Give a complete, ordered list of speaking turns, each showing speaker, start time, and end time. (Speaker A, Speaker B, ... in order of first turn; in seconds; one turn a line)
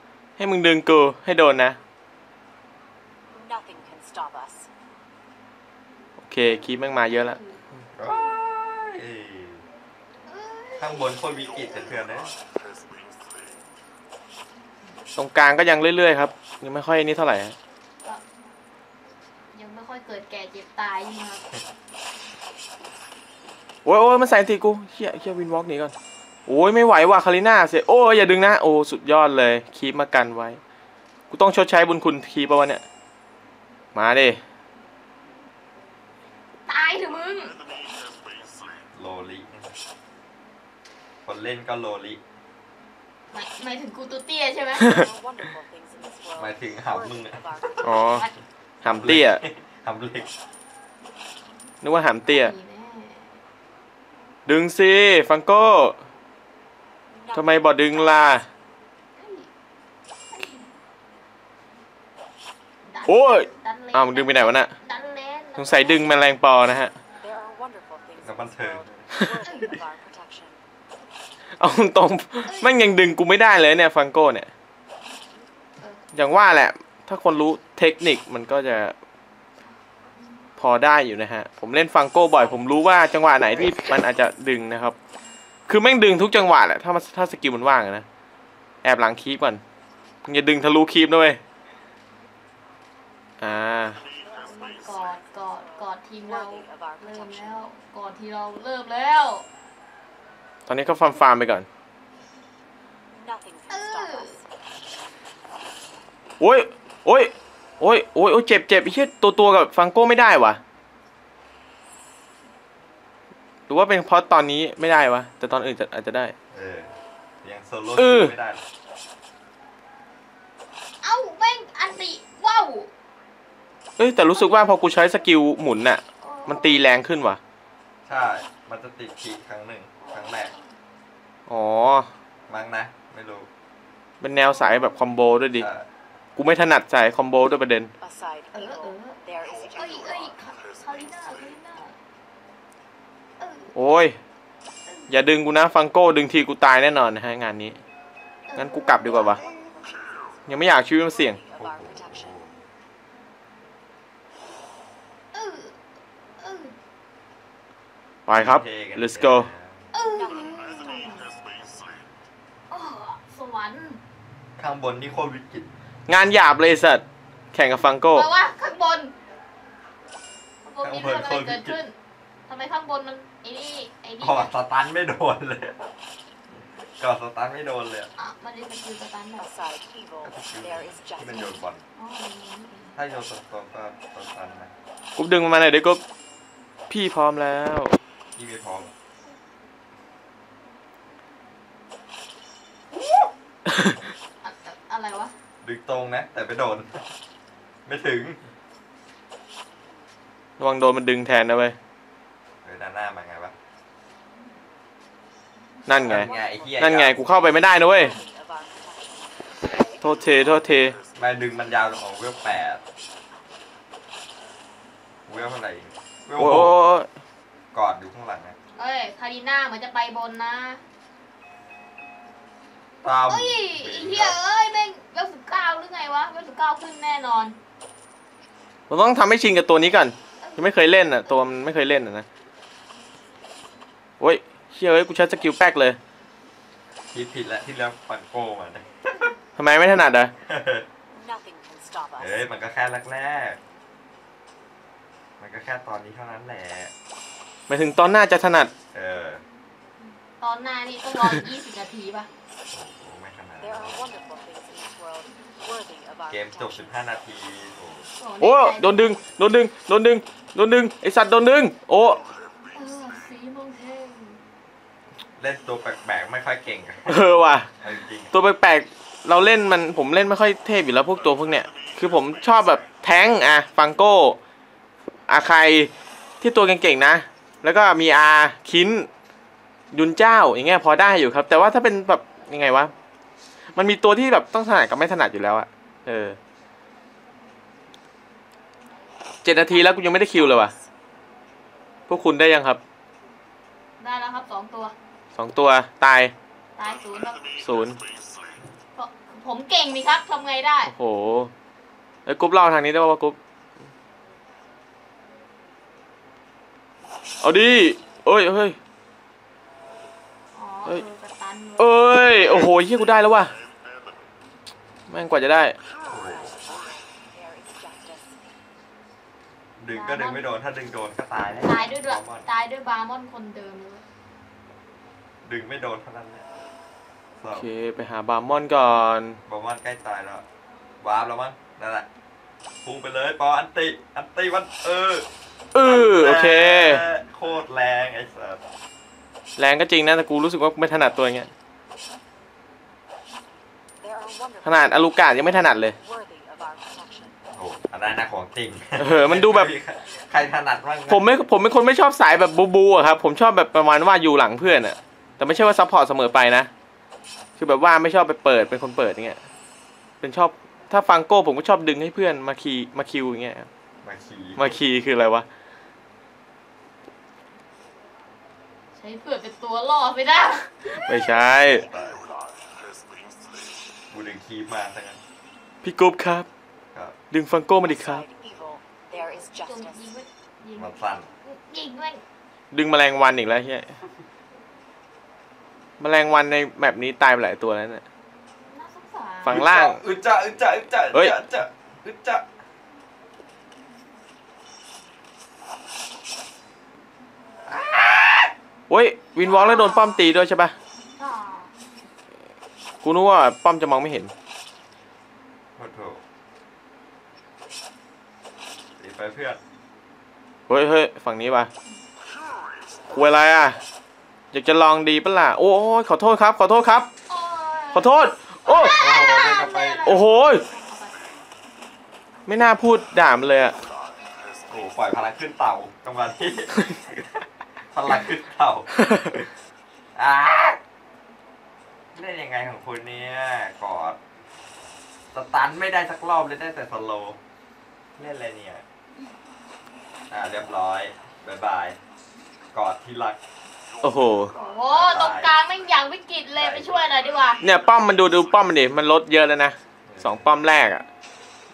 Speaker A: 0.4-1.8
Speaker B: 3.3-4.7
Speaker A: 6.2-7.4
Speaker C: 6.9-8.3
Speaker D: 8.0-9.6
Speaker C: 10.3-11.8
Speaker D: 10.8-12.3
Speaker A: 15.2-17.6
Speaker C: 19.5-21.4
Speaker A: 23.8-25.9
Speaker A: 26.5-30.6
Speaker A: 31.3-32.8
Speaker A: 33.9-34.4
Speaker C: 36.7-37.5
Speaker D: 38.9-39.7
Speaker D: 41.2-42.2
Speaker C: 43.3-44.9
Speaker B: 44.7-48.2
Speaker A: 44.8-45.1
Speaker D: 46.4-47.4
Speaker A: 47.8-48.2
Speaker C: 47.9-48.3
Speaker A: 48.8-49.4
Speaker D: 48.8-50.3
Speaker A: 51.8-52.5
Speaker C: 52.2-53.3
Speaker A: 54.5-56.0
Speaker B: 57.1-58.5
Speaker A: 57.3-58.4
Speaker C: 59.2-59.5
Speaker C: 60.3-60.7
Speaker C: 62.9-66.1
Speaker A: 63.1-64.7
Speaker A: 65.6-66.9
Speaker B: 67.2-70.6
Speaker D: 68.2-68.9
Speaker C: 69.4-69.8
Speaker A: 71.6-74.5
Speaker C: 72.5-72.8
Speaker A: 76.1-78.9
Speaker A: 80.6-84.9
Speaker B: 82.7-83.4
Speaker A: 85.7-88.0
Speaker A: 88.8-89.6
Speaker A: 90.2-91.4
Speaker A: 93.4-94.0
Speaker B: 94.1-97.7
Speaker C: 94.4-99.5
Speaker A: 100.7-101.7
Speaker B: 103.1-104.7
Speaker C: 103.7-104.3
Speaker A: 106.4-110.6
Speaker A: 113.7-116.3
Speaker D: 116.5-116.9
Speaker D: 117.4-118.6
Speaker A: 118.0-118.3
Speaker C: 121.0-122.9
Speaker A: 124.0-127.4
Speaker C: 124.3-125.0
Speaker C: 126.2-126.8
Speaker D: 128.1-130.5
Speaker C: 130.0-130.6
Speaker A: 131.5-132.1
Speaker D: 132.5-133.5
Speaker A: 134.2-135.7
Speaker C: 134.5-135.1
Speaker D: 135.5-135.9
Speaker A: 136.3-137.9
Speaker B: 138.0-140.5
Speaker C: 138.5-139.2
Speaker C: 139.7-141.9
Speaker C: 143.4-143.7
Speaker A: 143.7-144.2
Speaker C: 144.9-145.1
Speaker A: 145.1-147.8
Speaker C: 148.5-149.4
Speaker A: 148.6-149.4
Speaker B: 149.0-152.4
Speaker A: 150.5-151.4
Speaker D: 151.6-152.6
Speaker C: 155.3-155.8
Speaker C: 156.4-156.7
Speaker A: 158.2-159.5
Speaker D: 158.3-159.8
Speaker C: 159.9-161.2
Speaker B: 160.1-161.2
Speaker C: 162.7-164.0
Speaker D: 164.6-165.7
Speaker A: 166.1-168.3
Speaker C: 168.1-169.1
Speaker C: 170.6-171.9
Speaker D: 170.8-171.8
Speaker C: 172.5-174.5
Speaker D: 174.2-175.8
Speaker D: 177.0-178.1
Speaker C: 178.2-179.4
Speaker B: 179.4-181.5
Speaker D: 180.2-181.8
Speaker C: 182.0-182.9
Speaker D: 182.9-184.7
Speaker A: 185.2-186.0
Speaker A: 186.9-187.9
Speaker D: 188.3-188.9
Speaker C: 193.0-193.3
Speaker A: 193.7-194.0
Speaker C: 194.4-195.3
Speaker D: 195.6-197.1
Speaker D: 197.8-198.4
Speaker A: 200.6-201.8
Speaker D: 202.6-203.5
Speaker A: 205.9-208.1
Speaker B: 205.9-209.9
Speaker D: 206.0-207.2
Speaker A: 210.0-210.9
Speaker D: 211.1-212.8
Speaker D: 215.3-216.7
Speaker A: 216.4-217.1
Speaker D: 217.7-218.6
Speaker C: 218.8-220.8
Speaker D: 223.0-224.4
Speaker C: 223.3-227.6
Speaker A: 228.9-232.2
Speaker C: 230.4-231.4
Speaker A: 234.2-236.0
Speaker D: 237.1-239.3
Speaker A: 239.6-240.3
Speaker D: 240.4-240.8
Speaker B: 241.1-242.4
Speaker D: 242.2-243.6
Speaker D: 245.4-246.9
Speaker A: 247.7-248.7
Speaker D: 248.9-249.4
Speaker C: 250.4-252.3
Speaker D: 252.7-254.1
Speaker B: 253.6-256.9
Speaker D: 256.3-258.1
Speaker C: 258.2-259.1
Speaker A: 258.4-262.2
Speaker C: 262.7-264.4
Speaker D: 265.4-267.2
Speaker A: 267.1-267.7
Speaker D: 267.8-268.3
Speaker A: 268.3-274.4
Speaker A: 275.3-279.1
Speaker A: 279.9-282.9
Speaker A: 283.7-286.4
Speaker A: 289.4-290.7
Speaker B: 289.7-290.9
Speaker A: 292.1-292.8
Speaker C: 294.0-294.9
Speaker A: 295.3-296.3
Speaker C: 296.8-297.4
Speaker A: 297.6-298.0
Speaker C: 298.9-300.9
Speaker A: 300.8-301.5
Speaker A: 302.2-303.4
Speaker A: 307.4-308.8
Speaker C: 310.5-312.2
Speaker A: 311.8-313.5
Speaker A: 315.1-315.7
Speaker D: 316.1-316.6
Speaker B: 316.1-318.4
Speaker D: 319.8-322.4
Speaker C: 319.9-320.4
Speaker C: 321.6-324.0
Speaker D: 325.4-326.4
Speaker D: 327.4-327.7
Speaker A: 327.5-329.4
Speaker D: 329.4-330.4
Speaker D: 331.0-332.1
Speaker D: 332.8-335.2
Speaker A: 335.7-337.1
Speaker D: 335.8-338.6
Speaker A: 339.6-341.5
Speaker B: 344.0-347.4
Speaker A: 344.6-345.9
Speaker D: 347.6-351.3
Speaker A: 349.0-349.7
Speaker A: 351.1-356.7
Speaker A: 357.6-359.4
Speaker A: 360.2-363.7
Speaker D: 364.0-364.7
Speaker A: 364.6-365.4
Speaker C: 368.9-371.3
Speaker A: 370.9-371.8
Speaker D: 371.6-372.2
Speaker D: 374.1-375.2
Speaker A: 375.8-376.5
Speaker A: 377.3-378.2
Speaker B: 377.8-380.1
Speaker C: 379.1-380.9
Speaker D: 380.8-381.3
Speaker C: 381.4-382.2
Speaker A: 382.7-383.9
Speaker A: 386.0-388.0
Speaker C: 388.7-389.6
Speaker A: 389.4-390.0
Speaker D: 389.5-392.4
Speaker D: 397.6-398.5
Speaker A: 398.9-400.7
Speaker C: 399.4-400.2
Speaker C: 401.2-401.7
Speaker A: 403.0-404.3
Speaker D: 405.8-406.2
Speaker D: 409.0-409.6
Speaker A: 410.7-411.7
Speaker A: 413.1-413.8
Speaker A: 414.5-417.1
Speaker C: 417.3-418.1
Speaker A: 417.9-419.0
Speaker C: 418.6-421.2
Speaker D: 418.9-420.4
Speaker A: 420.0-420.6
Speaker A: 422.5-423.8
Speaker D: 424.7-426.8
Speaker D: 427.9-428.9
Speaker A: 429.0-429.4
Speaker D: 430.1-430.8
Speaker D: 432.1-434.2
Speaker D: 435.3-437.4
Speaker D: 438.2-438.8
Speaker D: 440.3-442.0
Speaker D: 442.7-443.4
Speaker A: 444.0-444.5
Speaker C: 444.6-447.6
Speaker D: 444.9-445.5
Speaker D: 446.6-447.0
Speaker A: 447.6-451.0
Speaker D: 450.1-450.5